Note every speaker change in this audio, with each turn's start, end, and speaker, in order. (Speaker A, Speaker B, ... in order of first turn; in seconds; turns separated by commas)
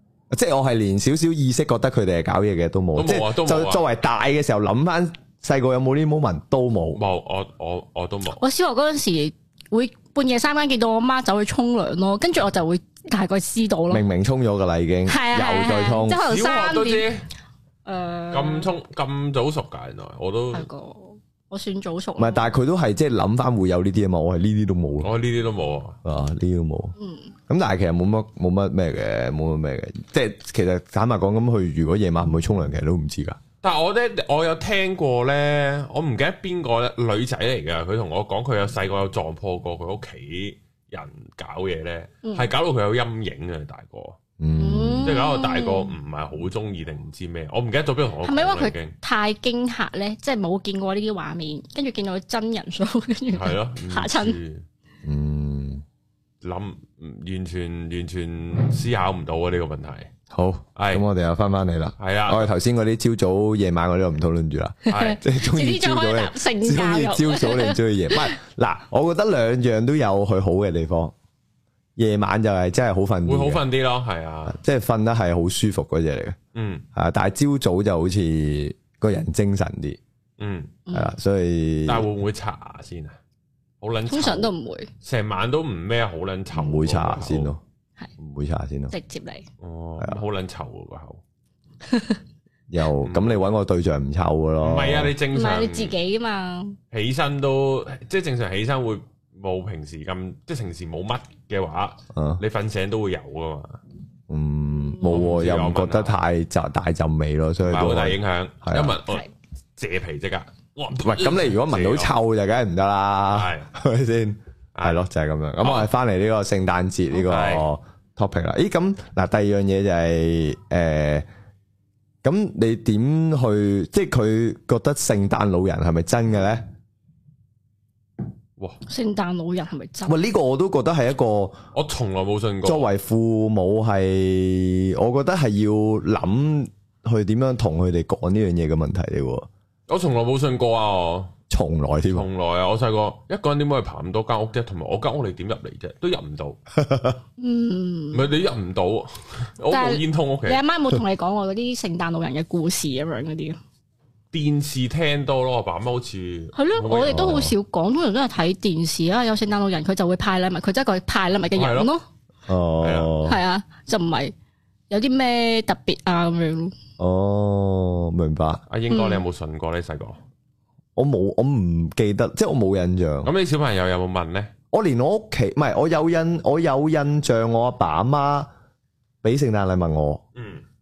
Speaker A: 0.3-7.0, Speaker B: 3.0-3.8, Speaker B: 6.9-8.4, Speaker C: 8.4-14.1, Speaker A: 13.9-16.2, Speaker C: 15.1-17.1, Speaker B: 16.2-17.3, Speaker C: 17.9-18.7, Speaker B: 18.3-20.7, Speaker C: 20.5-22.5, Speaker A: 22.2-25.1, Speaker B: 25.0-26.0, Speaker A: 26.0-26.9, Speaker C: 27.0-27.3, Speaker A: 27.5-33.4, Speaker B: 33.6-44.2, Speaker C: 42.2-42.5, Speaker A: 44.4-45.1, Speaker C: 44.5-45.9, Speaker B: 45.0-48.9, Speaker C: 48.2-54.4, Speaker B: 53.3-54.6, Speaker A: 55.0-55.8, Speaker B: 56.4-60.1, Speaker A: 60.3-71.1, Speaker B: 60.8-61.0, Speaker B: 62.0-62.5, Speaker B: 64.9-65.2, Speaker C: 64.9-68.3, Speaker A: 72.0-73.6, Speaker B: 73.2-74.6, Speaker A: 74.5-76.4, Speaker B: 76.5-76.8, Speaker A: 77.0-80.0, Speaker B: 80.4-80.8, Speaker C: 80.9-81.1, Speaker A: 80.9-82.1, Speaker B: 81.9-83.2, Speaker B: 83.8-84.5, Speaker C: 84.1-84.9, Speaker B: 85.0-87.5, Speaker A: 86.5-87.6, Speaker A: 88.2-88.9, Speaker C: 88.9-89.5, Speaker B: 89.6-91.2, Speaker C: 91.9-92.2, Speaker A: 92.7-95.1, Speaker B: 93.0-93.5, Speaker B: 94.6-95.9, Speaker C: 95.3-96.8, Speaker B: 96.9-103.8, Speaker A: 102.1-102.4, Speaker A: 104.3-109.0, Speaker B: 105.0-106.2, Speaker B: 107.6-112.1, Speaker A: 111.0-121.3, Speaker B: 113.3-113.7, Speaker B: 114.8-115.0, Speaker B: 115.6-115.9, Speaker B: 117.3-117.7, Speaker A: 122.2-126.6, Speaker C: 128.9-130.2, Speaker A: 130.1-131.6, Speaker B: 131.7-132.9, Speaker A: 132.7-139.5, Speaker B: 139.9-141.3, Speaker A: 141.5-142.3, Speaker B: 142.1-146.6, Speaker A: 146.8-147.2, Speaker C: 147.4-148.3, Speaker B: 148.1-150.6, Speaker C: 149.7-153.6, Speaker B: 154.3-157.4, Speaker C: 156.6-162.0, Speaker A: 157.1-157.5, Speaker B: 161.6-161.9, Speaker A: 162.5-163.4, Speaker B: 162.8-163.2, Speaker C: 163.2-164.3, Speaker C: 164.9-166.7, Speaker A: 167.0-168.6, Speaker B: 168.7-170.2, Speaker C: 168.9-169.2, Speaker A: 171.0-173.3, Speaker B: 173.2-174.5, Speaker A: 174.7-178.5, Speaker A: 179.2-180.2, Speaker B: 180.4-180.6